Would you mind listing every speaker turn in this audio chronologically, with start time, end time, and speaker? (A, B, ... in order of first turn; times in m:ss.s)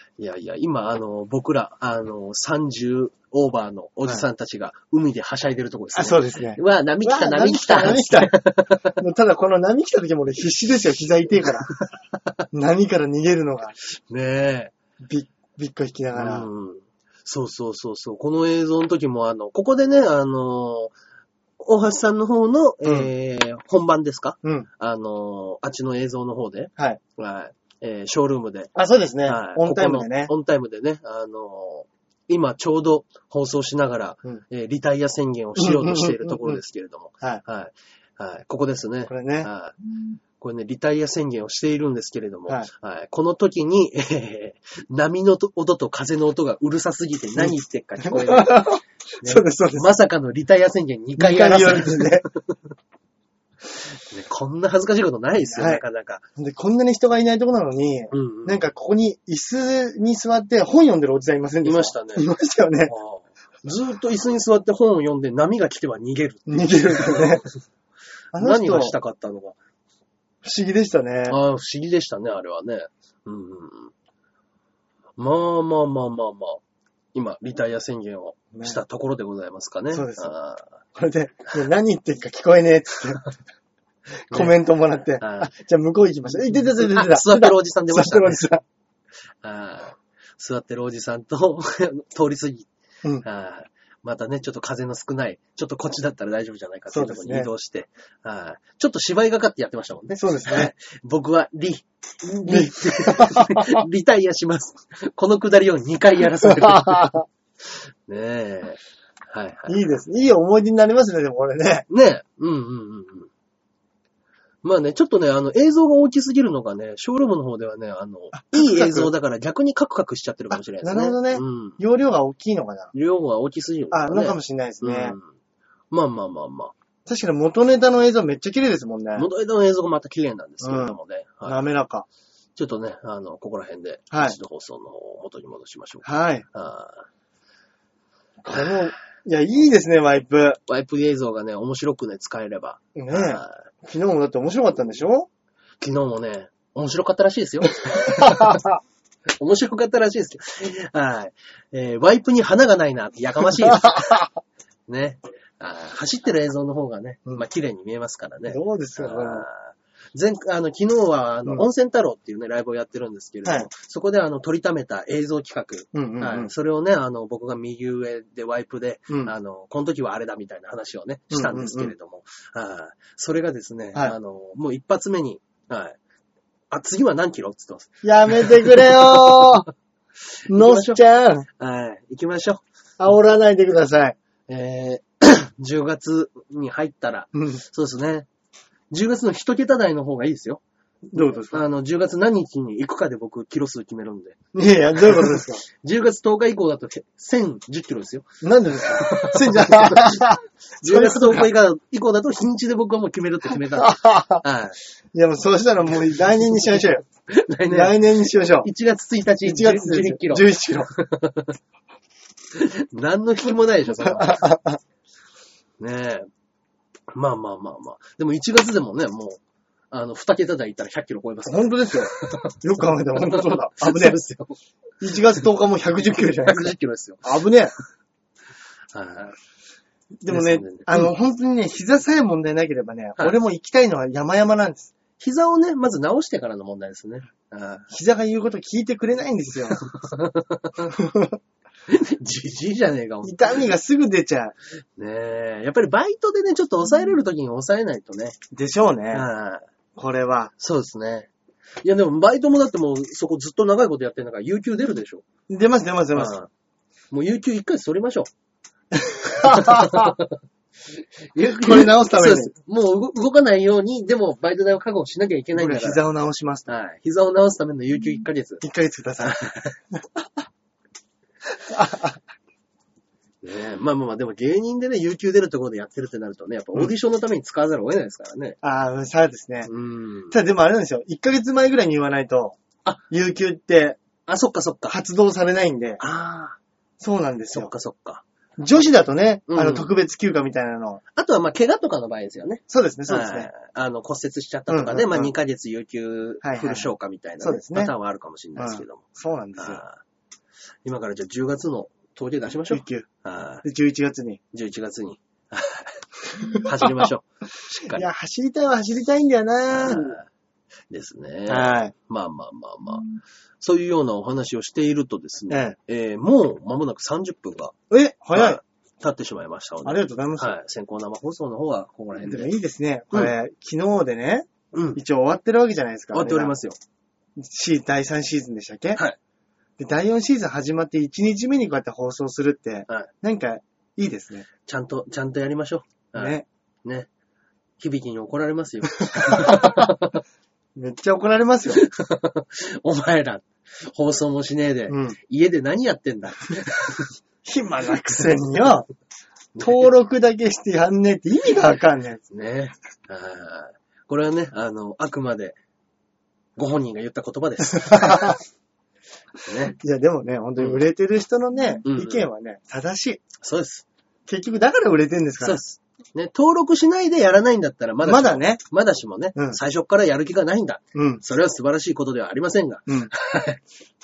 0:00.2-0:09.0 A
0:05.9-0:08.4 B
0:08.9-0:11.8 B
0:12.5-0:13.8 B
0:14.1-0:14.7 A
0:15.0-0:16.5 B
0:16.2-0:20.9 A
0:21.6-0:28.8 A
0:22.8-0:23.1 B
0:28.8-0:30.3 B
0:29.3-0:39.8 A
0:35.6-0:36.6 B
0:39.1-0:39.5 B
0:40.4-0:52.6 A
0:47.4-0:50.0 B
0:51.2-0:52.3 B
0:54.0-0:56.2 A
0:55.5-0:55.8 B
0:56.4-1:02.9 B
0:58.1-0:58.7 A
1:01.6-1:02.3 A
1:02.9-1:07.4 A
1:06.5-1:07.5 B
1:08.3-1:09.0 B
1:08.4-1:09.6 A
1:10.4-1:11.4 B
1:11.3-1:13.9 A
1:15.2-1:16.6 A
1:17.1-1:20.6 A
1:18.5-1:18.8 B
1:19.9-1:20.3 B
1:21.0-1:23.2 B
1:24.3-1:24.6 A
1:24.3-1:28.6 B
1:25.2-1:25.5 A
1:26.7-1:28.5 A
1:29.4-1:32.7 A
1:33.2-1:47.2 A
1:36.9-1:37.5 B
1:40.2-1:40.7 B
1:42.5-1:43.8 B
1:46.6-1:47.2 B
1:48.1-1:49.8 A
1:49.7-1:51.9 B
1:51.9-1:53.3 A
1:54.6-2:01.8 A
1:58.3-1:59.1 B
2:00.5-2:02.9 B
2:02.9-2:05.3 A
2:03.9-2:05.2 B
2:05.9-2:06.7 A
2:07.1-2:09.3 B
2:09.2-2:11.7 A
2:10.6-2:12.1 B
2:12.6-2:17.0 A
2:14.1-2:14.4 B
2:16.0-2:16.4 B
2:18.4-2:20.6 B
2:20.7-2:23.6 A
2:23.0-2:25.3 B
2:25.8-2:28.7 A
2:28.2-2:28.6 B
2:29.3-2:34.2 A
2:34.9-2:56.0 A
2:38.5-2:39.5 B
2:43.4-2:43.7 B
2:45.9-2:46.5 B
2:49.1-2:49.3 B
2:51.3-2:51.9 B
2:56.7-2:59.6 A
2:58.0-2:59.7 B
3:00.5-3:01.5 B
3:00.5-3:01.0 A
3:01.6-3:02.6 A
3:03.0-3:04.2 B
3:04.5-3:08.3 A
3:08.9-3:10.6 A
3:11.1-3:11.7 B
3:11.5-3:14.4 A
3:14.5-3:15.6 B
3:15.8-3:18.3 A
3:18.4-3:21.5 B
3:18.8-3:24.8 A
3:23.8-3:24.4 B
3:25.1-3:27.0 B
3:27.3-3:31.6 A
3:27.7-3:28.7 B
3:29.4-3:30.9 B
3:32.5-3:34.5 A
3:34.0-3:34.8 B
3:35.8-3:36.3 A
3:37.1-3:39.4 A
3:39.9-3:42.6 A
3:41.5-3:44.2 B
3:43.1-3:44.6 A
3:45.0-3:47.7 B
3:46.4-3:47.3 A
3:48.9-3:49.4 A
3:50.2-3:54.9 B
3:50.3-3:51.1 A
3:55.2-3:57.9 A
3:57.9-3:59.8 B
4:00.0-4:01.0 A
4:00.9-4:01.4 B
4:01.9-4:03.7 A
4:03.2-4:04.5 B
4:05.0-4:08.4 A
4:08.5-4:09.3 B
4:09.1-4:09.6 A
4:10.0-4:10.5 B
4:10.6-4:11.3 A
4:11.8-4:15.2 A
4:15.5-4:16.4 B
4:16.2-4:16.5 A
4:17.1-4:18.3 A
4:19.0-4:20.1 B
4:19.3-4:20.4 A
4:21.3-4:26.0 A
4:21.4-4:22.5 B
4:25.5-4:26.7 B
4:26.7-4:28.6 A
4:28.6-4:29.4 B
4:29.2-4:29.8 A
4:31.7-4:32.2 B
4:33.4-4:38.6 A
4:38.6-4:39.7 B
4:39.6-4:40.4 A
4:40.3-4:42.6 B
4:43.1-4:44.0 B
4:44.3-4:45.0 A
4:44.9-4:46.0 B
4:46.0-4:46.6 A
4:47.0-4:47.7 B
4:47.5-4:48.2 A
4:48.6-4:51.0 B
4:49.5-4:49.9 A
4:51.2-4:59.0 A
4:52.7-4:53.5 B
4:54.7-4:55.3 B
4:56.4-4:56.9 B
4:57.4-4:57.9 B
4:58.6-4:59.8 B
4:59.6-5:00.0 A
5:00.8-5:03.6 A
5:02.7-5:03.1 B
5:03.6-5:04.4 B
5:04.5-5:06.0 A
5:06.4-5:07.1 B
5:06.5-5:08.1 A
5:07.9-5:10.2 B
5:09.7-5:10.2 A
5:10.9-5:17.8 A
5:11.5-5:11.9 B
5:15.5-5:15.8 B
5:17.9-5:18.6 B
5:18.3-5:22.5 A
5:19.8-5:20.6 B
5:22.2-5:26.6 B
5:24.7-5:25.0 A
5:26.1-5:26.8 A
5:27.4-5:29.0 B
5:29.8-5:34.5 B
5:34.6-5:37.1 A
5:36.2-5:36.4 B
5:37.8-5:40.2 A
5:39.2-5:39.9 B
5:40.8-5:41.8 B
5:41.7-5:47.1 A
5:44.9-5:45.2 B
5:47.4-5:48.9 B
5:49.6-5:49.9 A
5:49.6-5:52.2 B
5:52.3-5:55.6 A
5:56.6-5:58.4 A
5:57.7-5:58.4 B
5:59.4-5:59.8 A
5:59.7-6:03.2 B
6:01.8-6:02.3 A
6:03.4-6:03.8 A
6:04.3-6:05.6 B
6:05.4-6:13.6 A
6:08.0-6:08.6 B
6:11.0-6:11.2 B